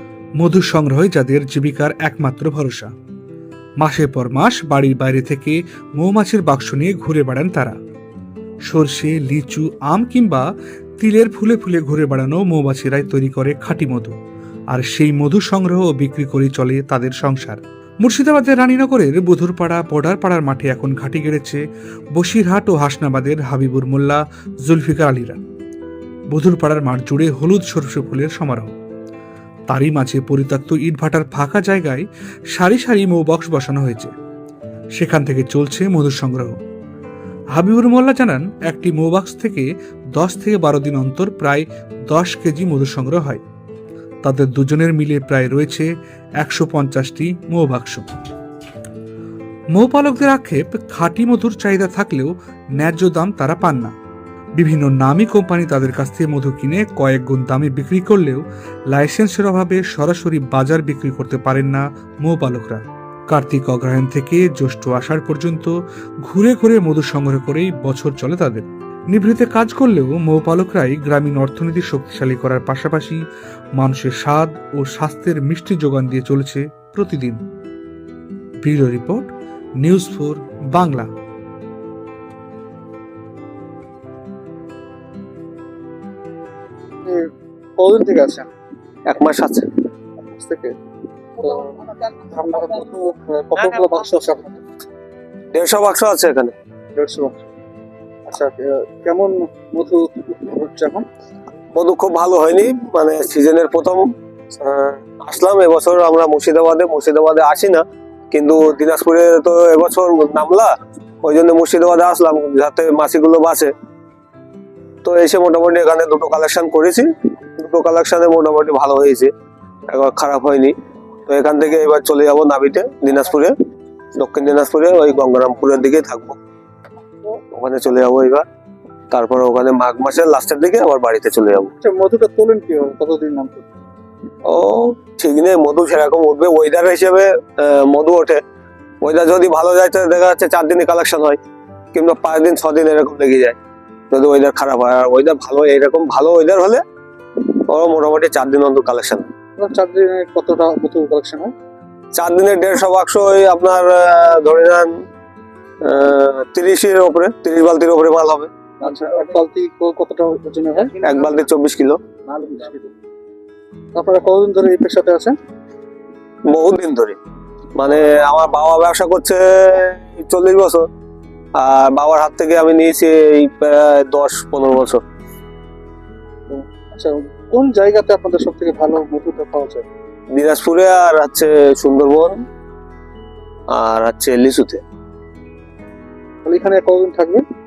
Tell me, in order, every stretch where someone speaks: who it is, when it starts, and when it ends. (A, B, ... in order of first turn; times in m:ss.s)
0:00.4-0:02.9 A
0:03.8-0:07.8 A
0:08.7-0:10.5 A
0:11.0-0:14.2 A
0:14.7-0:21.6 A
0:22.2-0:25.4 A
0:26.3-0:28.7 A
0:29.7-0:34.1 A
0:35.0-0:36.6 A
0:37.6-0:43.4 A
0:44.2-0:48.0 A
0:49.7-0:53.9 A
0:54.6-1:05.7 A
1:06.2-1:13.2 A
1:13.8-1:17.4 A
1:18.6-1:19.3 A
1:19.8-1:21.1 A
1:27.0-1:28.4 B
1:29.1-1:29.8 C
1:30.2-1:30.7 B
1:31.4-1:34.6 B
1:35.5-1:36.6 C
1:37.0-1:37.4 B
1:38.3-1:41.0 B
1:41.7-1:44.0 C
1:44.6-1:50.7 C
1:51.2-1:53.7 C
1:55.0-1:59.3 C
1:59.9-2:00.7 C
2:01.3-2:03.5 C
2:04.2-2:06.4 C
2:07.5-2:08.4 C
2:09.1-2:11.7 C
2:11.8-2:13.6 B
2:14.4-2:18.4 C
2:19.0-2:21.4 C
2:21.9-2:23.6 C
2:24.1-2:26.8 C
2:27.4-2:29.3 C
2:29.6-2:31.5 B
2:32.2-2:34.9 C
2:35.8-2:38.5 C
2:38.8-2:41.0 B
2:41.0-2:42.0 C
2:42.3-2:42.9 B
2:44.0-2:45.3 B
2:46.5-2:47.2 C
2:47.8-2:50.9 C
2:51.6-2:55.0 C
2:56.5-2:59.8 B
3:00.3-3:02.4 C
3:03.7-3:04.8 C
3:06.4-3:07.4 B